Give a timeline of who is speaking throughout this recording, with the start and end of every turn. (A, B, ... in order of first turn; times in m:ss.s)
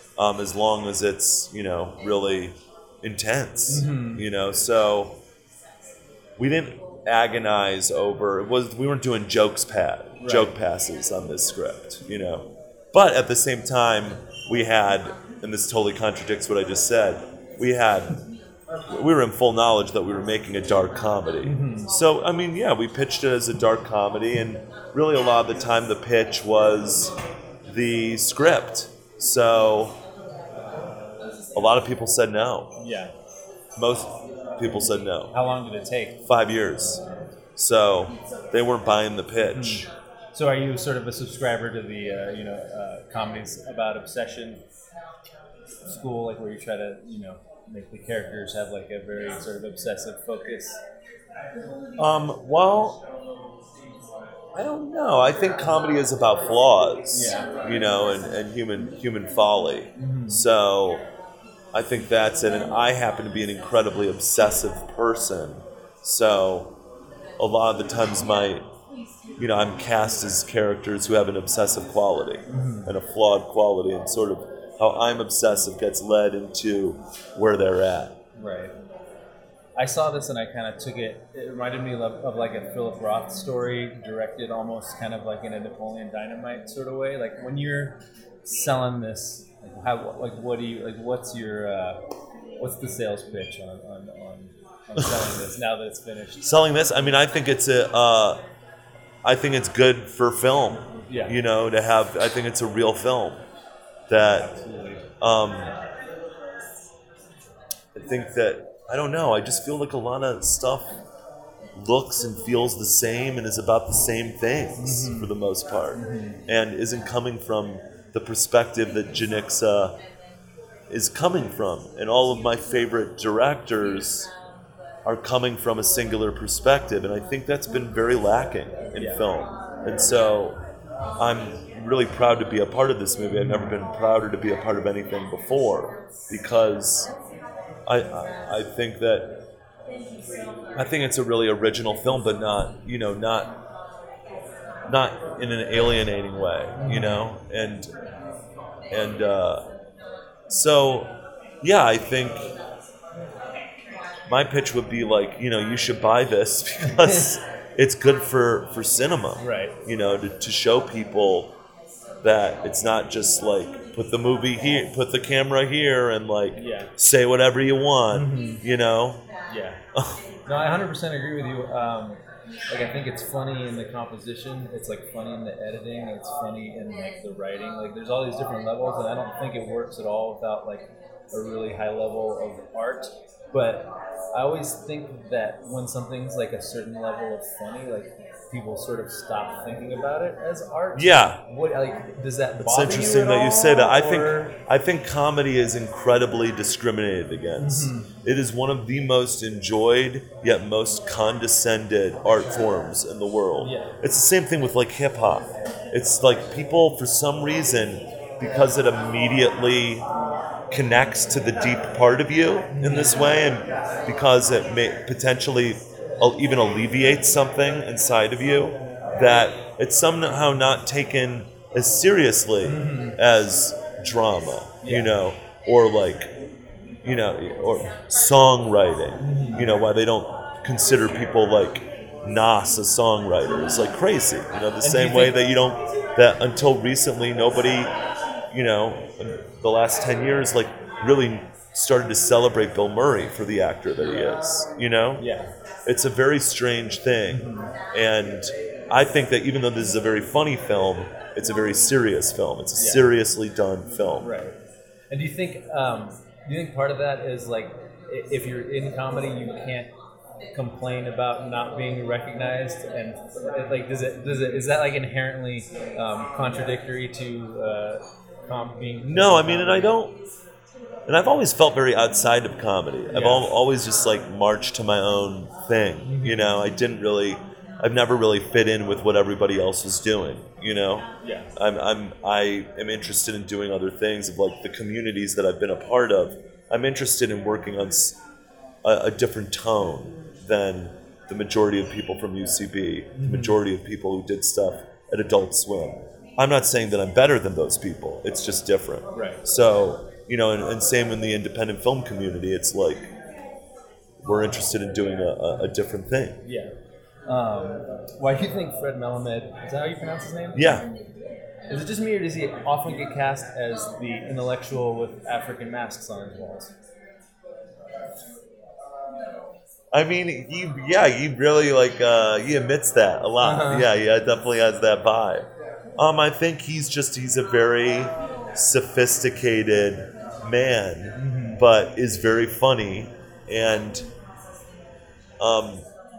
0:00.2-0:05.2 A
0:03.7-0:04.2 B
0:06.4-0:18.2 A
0:10.2-0:10.5 B
0:18.9-0:27.1 A
0:21.4-0:21.9 B
0:27.7-0:30.0 A
0:31.5-0:32.7 A
0:32.8-0:33.1 B
0:33.8-0:35.3 A
0:35.3-0:36.2 B
0:36.2-0:37.0 A
0:37.6-0:39.9 A
0:39.5-0:44.6 B
0:45.9-0:50.8 B
0:52.0-0:53.0 A
0:54.5-1:01.0 A
0:57.1-0:57.5 B
1:00.0-1:00.4 B
1:01.7-1:06.7 A
1:07.4-1:08.6 A
1:09.4-1:18.2 A
1:12.5-1:12.9 B
1:18.4-1:18.7 B
1:19.8-1:32.0 B
1:32.6-1:36.4 B
1:36.4-1:38.4 A
1:39.2-1:43.4 A
1:41.1-1:41.4 B
1:44.1-1:44.5 A
1:44.3-1:45.0 B
1:45.2-1:45.7 A
1:47.9-1:50.9 A
1:51.8-2:00.0 A
1:54.8-1:55.3 B
1:55.9-1:56.4 B
2:00.9-2:04.3 A
2:05.0-2:10.6 A
2:08.9-2:09.2 B
2:11.2-2:17.1 A
2:13.3-2:13.8 B
2:17.9-2:19.3 A
2:20.8-2:23.5 A
2:24.9-2:27.9 A
2:26.8-2:27.2 B
2:28.9-2:29.6 A
2:30.5-2:32.5 A
2:34.3-2:41.5 A
2:36.9-2:37.2 B
2:39.4-2:39.8 B
2:42.2-2:49.2 A
2:46.5-2:46.9 B
2:48.1-2:48.6 B
2:49.5-2:49.8 B
2:50.5-3:14.5 B
3:10.9-3:11.4 A
3:12.6-3:30.0 A
3:17.6-3:18.1 B
3:23.6-3:24.0 B
3:30.7-3:46.3 A
3:32.7-3:33.3 B
3:42.6-3:43.2 B
3:44.8-3:45.1 B
3:47.0-3:57.9 A
3:49.2-3:49.7 B
3:54.8-3:55.4 B
3:58.5-4:05.2 A
4:04.0-4:04.3 B
4:05.2-4:05.5 B
4:05.8-4:14.3 A
4:07.3-4:07.7 B
4:12.7-4:13.1 B
4:14.2-4:14.6 B
4:15.1-4:19.9 B
4:20.5-4:30.0 B
4:29.0-4:30.2 A
4:31.1-4:48.2 A
4:33.1-4:33.5 B
4:36.0-4:36.5 B
4:41.2-4:41.5 B
4:48.8-5:03.1 A
4:53.1-4:53.6 B
4:59.1-4:59.4 B
5:04.2-5:06.4 A
5:06.4-5:06.7 B
5:07.3-5:10.7 B
5:10.5-5:10.9 A
5:11.7-5:16.7 B
5:19.9-5:25.4 A
5:23.4-5:23.9 B
5:26.0-5:34.1 A
5:31.1-5:31.6 B
5:35.4-5:35.8 A